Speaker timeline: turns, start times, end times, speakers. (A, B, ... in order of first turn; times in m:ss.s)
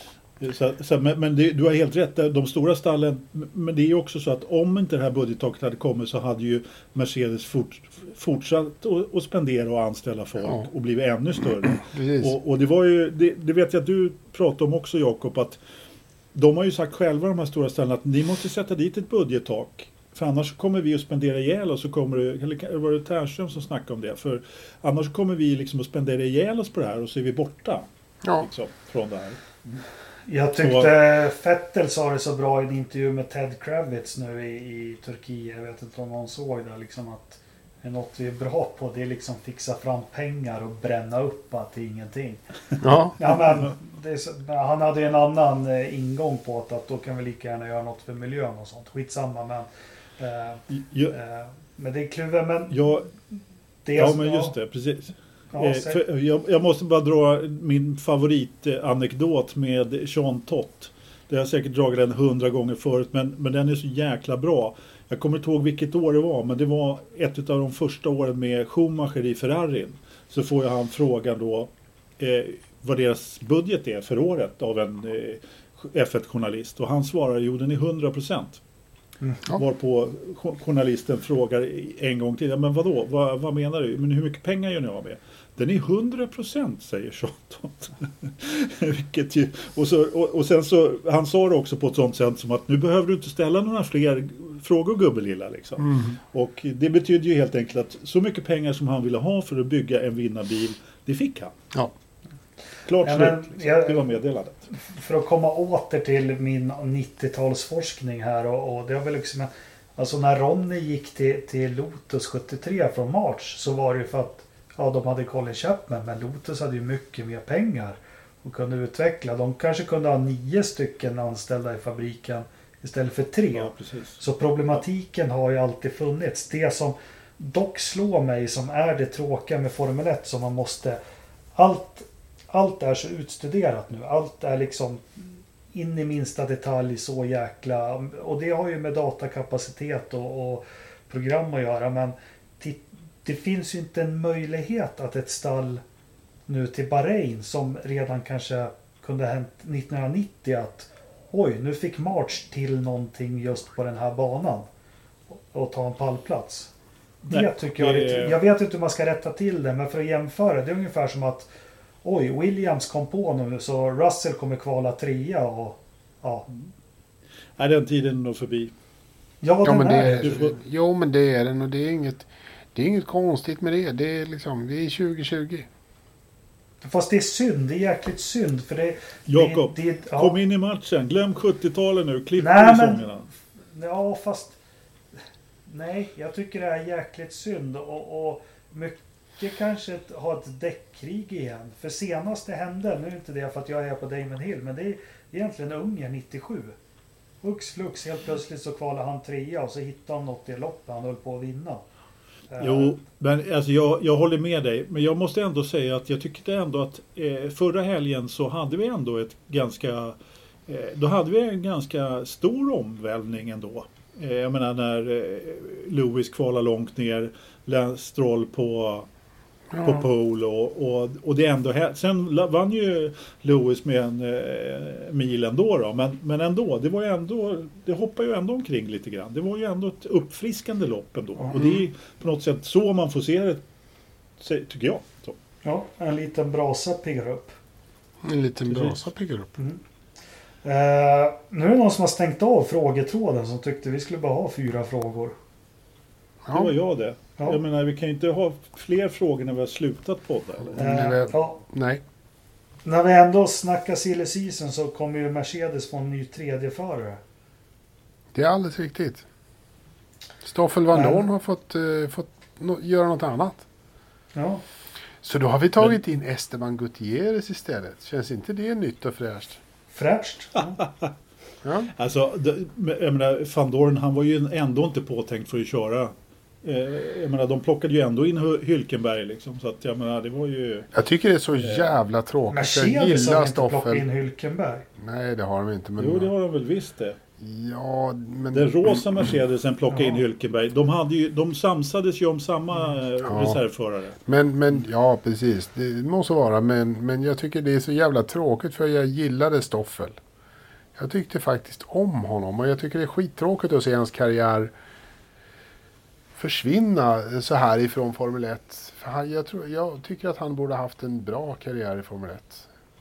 0:00.4-0:15.6 A
0:11.6-0:12.3 B
0:16.3-0:27.9 A
0:28.4-0:29.8 A
0:30.3-0:42.4 C
0:30.6-0:30.9 A
0:42.8-0:43.2 B
0:43.2-0:49.7 C
0:43.3-0:43.7 A
0:50.2-0:52.8 C
0:50.7-0:51.2 A
0:52.7-0:53.1 A
0:53.8-0:54.5 C
0:54.0-1:18.6 A
0:55.5-0:56.0 C
1:19.5-1:41.5 A
1:35.8-1:36.2 B
1:42.8-1:44.7 A
1:43.0-1:44.1 C
1:44.8-2:11.0 C
2:03.5-2:04.2 A
2:11.6-2:25.8 C
2:26.5-2:34.7 C
2:35.3-2:36.7 C
2:37.3-2:41.5 C
2:37.3-2:38.4 A
2:42.0-2:46.5 C
2:47.6-2:48.7 A
2:49.4-2:50.4 C
2:49.6-2:55.7 B
2:50.2-2:50.6 A
2:56.8-3:00.4 C
2:59.3-3:03.3 A
3:02.4-3:04.6 C
3:05.7-3:16.8 C
3:17.4-3:21.8 C
3:22.5-3:23.0 C
3:22.6-3:30.2 A
3:30.7-3:39.1 A
3:39.8-3:53.6 A
3:51.4-3:51.6 C
3:51.6-3:51.8 B
3:54.4-3:55.4 A
3:55.6-3:57.6 C
3:58.2-3:59.5 B
4:00.6-4:05.4 C
4:06.4-4:06.7 B
4:06.5-4:10.9 A
4:10.7-4:12.0 B
4:10.8-4:11.6 C
4:12.8-4:17.2 C
4:18.3-4:19.2 B
4:20.4-4:23.7 B
4:20.9-4:21.2 C
4:24.3-4:24.6 C
4:25.2-4:29.6 B
4:29.9-4:30.8 C
4:30.6-4:31.1 A
4:31.6-4:31.9 B
4:32.0-4:40.9 A
4:40.9-4:44.0 B
4:41.6-4:41.9 A
4:42.5-4:44.9 C
4:45.0-4:46.3 B
4:46.0-4:47.2 A
4:47.4-4:49.3 B
4:48.5-4:54.2 A
4:49.9-4:50.2 C
4:53.2-4:53.6 B
4:54.3-5:00.2 B
5:01.0-5:04.7 B
5:06.4-5:12.7 B